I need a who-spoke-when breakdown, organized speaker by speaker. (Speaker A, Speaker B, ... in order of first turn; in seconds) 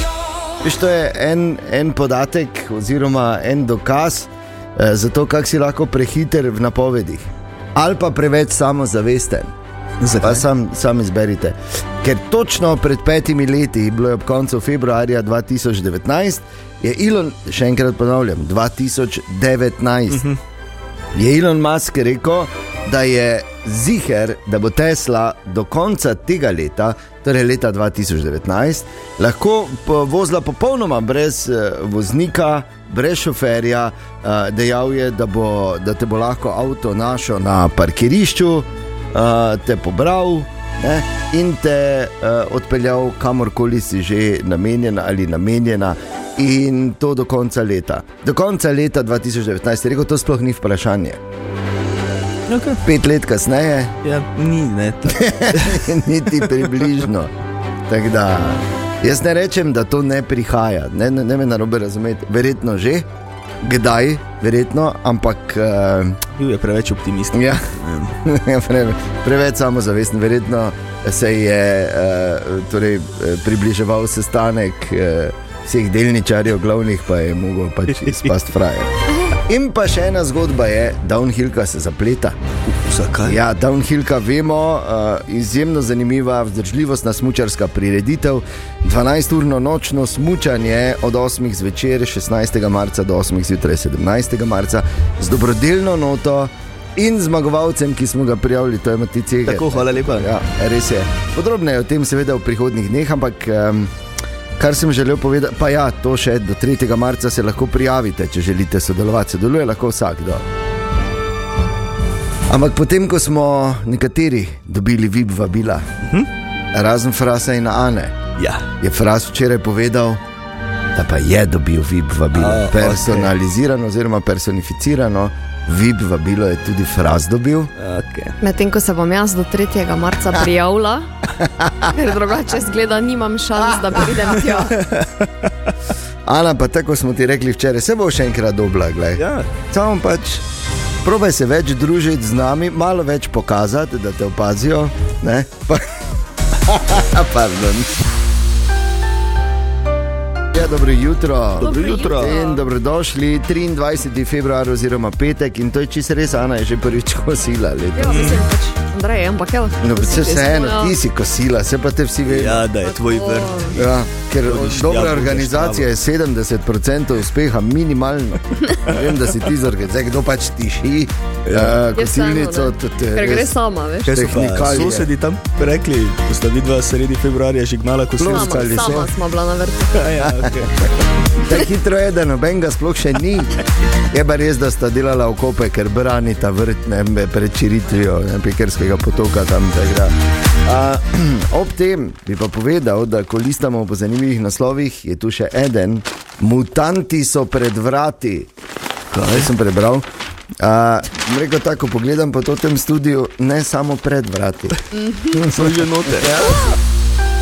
Speaker A: 0.6-9.5, 10.2-20.2, 21.1-51.2, 52.8-54.0, 55.1-57.3, 57.9-63.1, 63.6-66.2, 67.3-67.7, 68.2-82.4, 83.2-103.9, 104.6-110.4, 112.5-115.9, 116.7-118.2, 118.8-120.2, 120.9-127.7, 131.4-131.9, 136.2-140.4, 141.0-145.9, 146.6-147.9, 150.5-158.3, 159.8-162.7, 163.8-173.6, 174.1-175.1, 178.2-179.1, 181.4-183.6, 184.1-198.5, 199.3-200.1, 200.6-204.8, 205.3-206.7
Speaker B: 10.0-10.4, 20.1-20.4, 52.5-52.8, 54.0-55.9, 66.4-68.1, 82.7-83.4, 99.4-100.3, 118.4-118.7, 122.3-123.3, 127.8-128.4, 134.8-135.5, 139.2-139.5, 151.6-152.3, 158.1-158.4, 162.3-163.9, 164.4-165.9, 171.4-171.8, 174.1-179.0, 179.9-180.8, 199.1-199.5, 205.4-206.5
Speaker C: 128.4-131.1, 131.9-134.8, 151.6-152.6, 157.9-160.9, 162.8-163.7, 171.9-174.2, 178.2-180.2